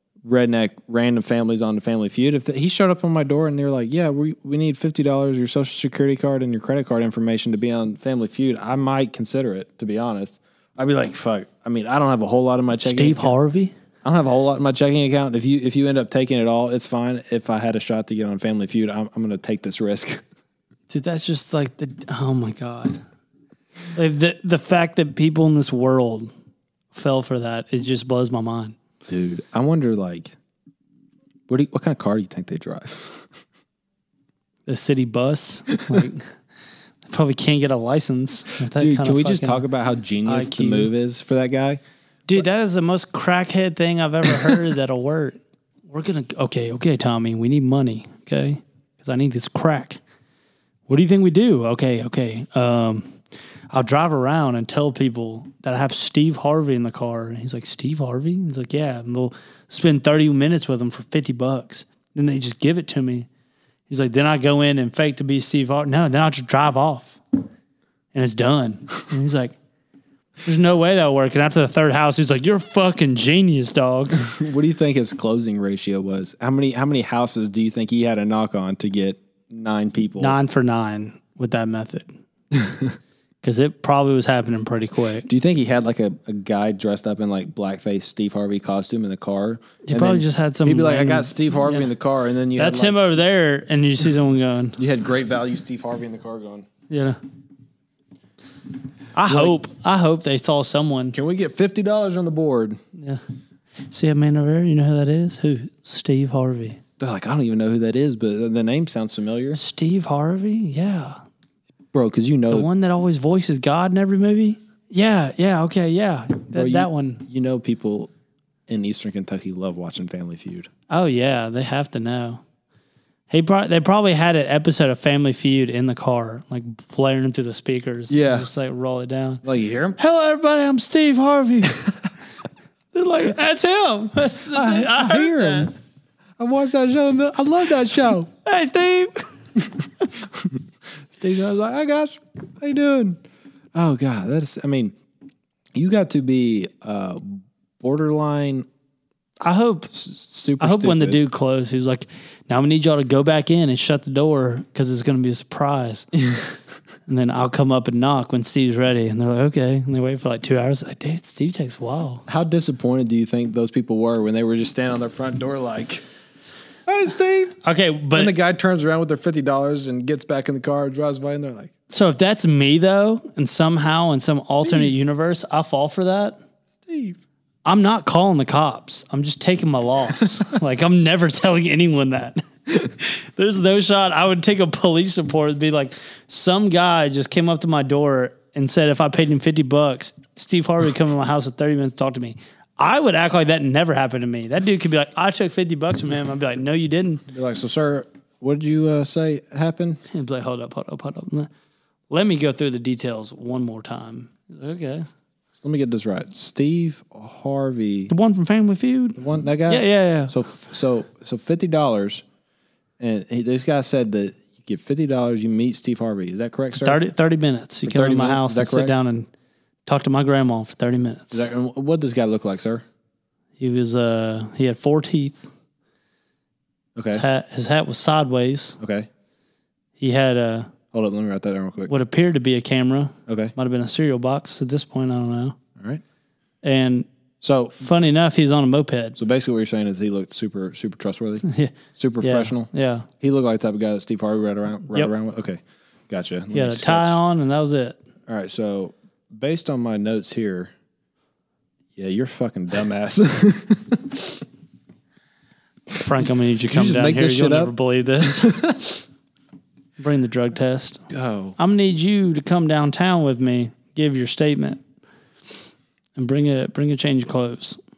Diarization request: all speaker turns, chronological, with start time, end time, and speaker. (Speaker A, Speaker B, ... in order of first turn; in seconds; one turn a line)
Speaker A: 0.2-13.3
Speaker B: 12.8-13.7
Speaker A: 14.0-20.2
Speaker B: 20.9-23.0
Speaker B: 23.9-26.3
Speaker B: 26.9-28.8
Speaker A: 29.1-30.3
Speaker A: 31.5-33.3
Speaker B: 34.7-36.3
Speaker B: 37.1-39.6
Speaker A: 38.7-41.8
Speaker B: 40.2-40.9
Speaker B: 42.3-50.0
Speaker B: 50.9-53.2
Speaker B: 53.7-63.3
Speaker B: 63.9-67.2
Speaker B: 68.1-69.5
Speaker B: 70.4-74.2
Speaker A: 74.2-80.4
Speaker B: 80.2-82.1
Speaker A: 82.5-82.9
Speaker B: 83.4-85.3
Speaker A: 85.3-93.0
Speaker B: 89.8-91.9
Speaker B: 92.5-94.8
Speaker A: 94.8-96.7
Speaker B: 96.9-97.2
Speaker A: 99.2-99.6
Speaker B: 99.2-101.2
Speaker A: 101.1-102.8
Speaker B: 103.0-103.2
Speaker B: 103.9-106.8
Speaker A: 107.0-109.6
Speaker B: 109.5-111.2
Speaker A: 111.9-112.7
Speaker B: 112.5-117.2
Speaker A: 116.5-118.1
Speaker A: 118.7-120.7
Speaker B: 120.9-122.4
Speaker B: 123.3-129.4
Speaker A: 128.1-128.5
Speaker A: 129.4-130.0
Speaker B: 130.0-131.8
Speaker B: 132.9-135.7
Speaker A: 134.5-135.7
Speaker A: 136.4-138.3
Speaker B: 138.4-139.2
Speaker A: 140.2-140.6
Speaker A: 141.1-143.2
Speaker A: 143.7-145.0
Speaker A: 145.7-148.7
Speaker B: 149.4-149.9
Speaker A: 149.9-151.2
Speaker B: 150.6-156.1
Speaker B: 157.1-162.2
Speaker A: 162.3-166.0
Speaker A: 166.9-167.6
Speaker B: 167.6-168.3
Speaker A: 168.1-171.7
Speaker B: 171.9-176.4
Speaker A: 174.6-174.9
Speaker A: 176.8-177.2
Speaker B: 177.6-197.2
Speaker A: 197.3-200.0
Speaker B: 200.1-201.5
Speaker B: 202.1-205.1
Speaker A: 205.6-208.1
Speaker B: 208.1-210.3
Speaker A: 209.2-212.2
Speaker A: 213.0-217.0
Speaker B: 216.8-219.3
Speaker A: 217.8-219.0
Speaker B: 219.8-221.5
Speaker A: 221.3-222.8
Speaker B: 223.6-225.4
Speaker A: 226.9-227.2
Speaker B: 227.1-228.8
Speaker A: 228.8-229.1
Speaker B: 230.0-230.7
Speaker A: 230.9-231.9
Speaker B: 231.9-235.6
Speaker A: 233.3-233.5
Speaker A: 235.8-236.0
Speaker B: 236.6-237.1
Speaker A: 237.4-237.8
Speaker B: 237.8-239.2
Speaker A: 239.2-241.4
Speaker B: 241.4-243.1
Speaker A: 242.0-247.2
Speaker B: 246.5-248.0
Speaker A: 248.3-250.7
Speaker A: 251.9-254.4
Speaker B: 255.9-258.5
Speaker A: 256.7-259.0
Speaker B: 260.0-261.0
Speaker A: 261.1-261.6
Speaker B: 261.6-264.8
Speaker B: 266.1-267.8